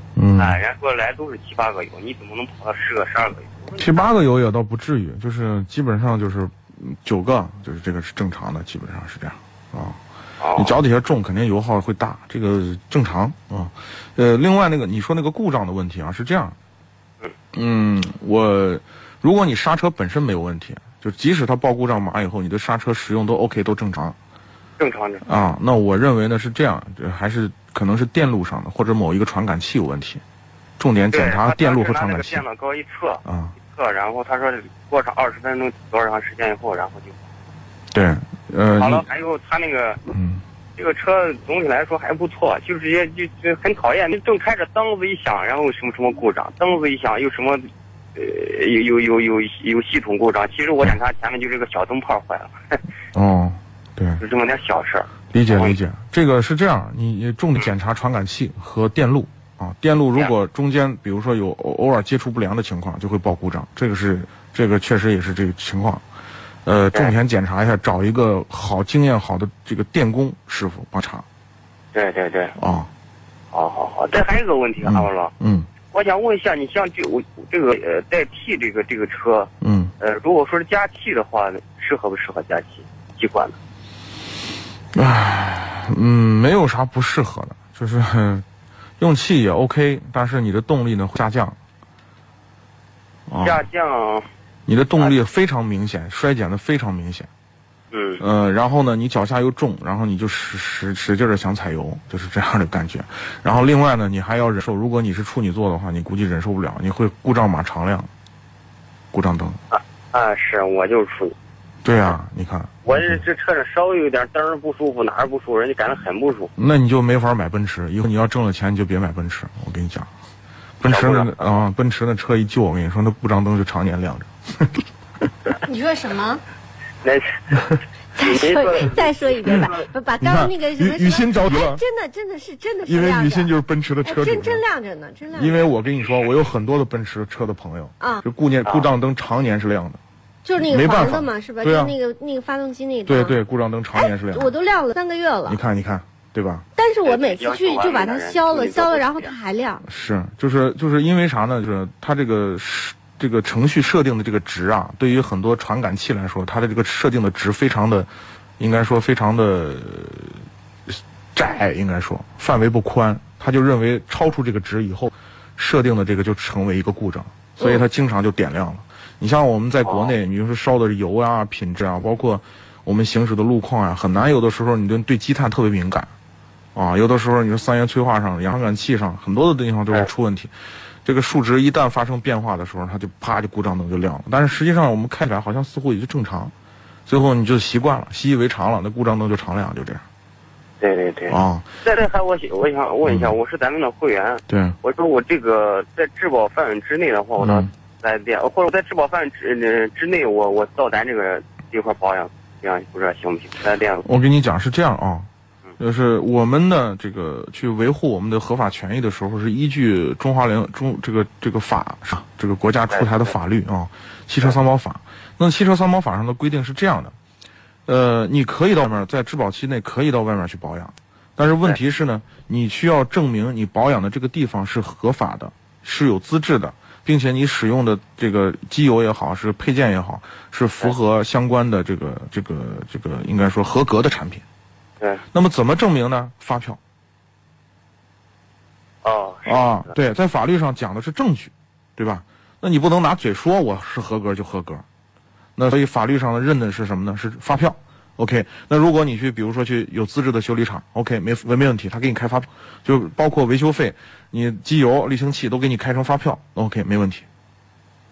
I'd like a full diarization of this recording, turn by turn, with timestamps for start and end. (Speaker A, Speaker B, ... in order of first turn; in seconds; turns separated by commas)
Speaker A: 0.1-0.6, Speaker B: 0.4-4.1, Speaker A: 3.8-10.0, Speaker B: 10.4-10.8, Speaker A: 10.6-16.5, Speaker A: 17.5-24.1, Speaker B: 24.8-25.4, Speaker A: 25.2-30.2, Speaker A: 30.8-32.4, Speaker B: 31.1-37.1, Speaker A: 33.2-33.5, Speaker A: 37.9-39.0, Speaker B: 38.8-40.0, Speaker A: 40.1-40.4, Speaker B: 40.8-52.8, Speaker A: 53.1-54.2, Speaker B: 54.2-55.8, Speaker A: 55.3-66.0, Speaker A: 66.6-71.2, Speaker B: 71.9-72.6, Speaker A: 72.6-72.9, Speaker B: 73.5-75.3, Speaker A: 74.8-75.7, Speaker B: 75.9-79.5, Speaker A: 79.6-79.9, Speaker B: 80.0-83.6, Speaker A: 84.9-88.4, Speaker A: 89.0-91.6, Speaker A: 93.3-93.6, Speaker B: 93.4-94.2, Speaker A: 94.7-97.3, Speaker B: 97.9-98.2, Speaker A: 98.2-108.1, Speaker A: 109.1-109.6, Speaker B: 109.7-111.3, Speaker A: 111.8-113.2, Speaker B: 112.8-116.5, Speaker A: 116.5-120.1, Speaker A: 120.8-124.8, Speaker B: 120.9-121.6, Speaker C: 125.6-126.4, Speaker B: 127.0-129.1, Speaker C: 128.1-133.5, Speaker A: 129.7-131.8, Speaker A: 132.8-134.6, Speaker C: 134.0-135.7, Speaker A: 135.3-140.0, Speaker C: 140.4-143.4, Speaker A: 140.6-141.9, Speaker A: 143.1-144.5, Speaker C: 143.9-145.6, Speaker A: 145.5-146.6, Speaker C: 146.8-149.8, Speaker B: 147.0-149.3, Speaker A: 149.8-176.1, Speaker B: 169.8-170.1, Speaker A: 176.7-180.5, Speaker A: 181.0-186.5, Speaker A: 187.1-190.0, Speaker B: 190.8-204.1, Speaker A: 191.3-191.7, Speaker A: 193.1-193.3, Speaker A: 194.5-194.7, Speaker A: 197.4-197.7, Speaker A: 204.0-205.3, Speaker A: 205.8-217.1, Speaker B: 212.9-213.3, Speaker A: 217.9-234.4, Speaker A: 235.3-236.8, Speaker B: 239.0-239.9, Speaker A: 239.4-244.8, Speaker A: 245.6-257.2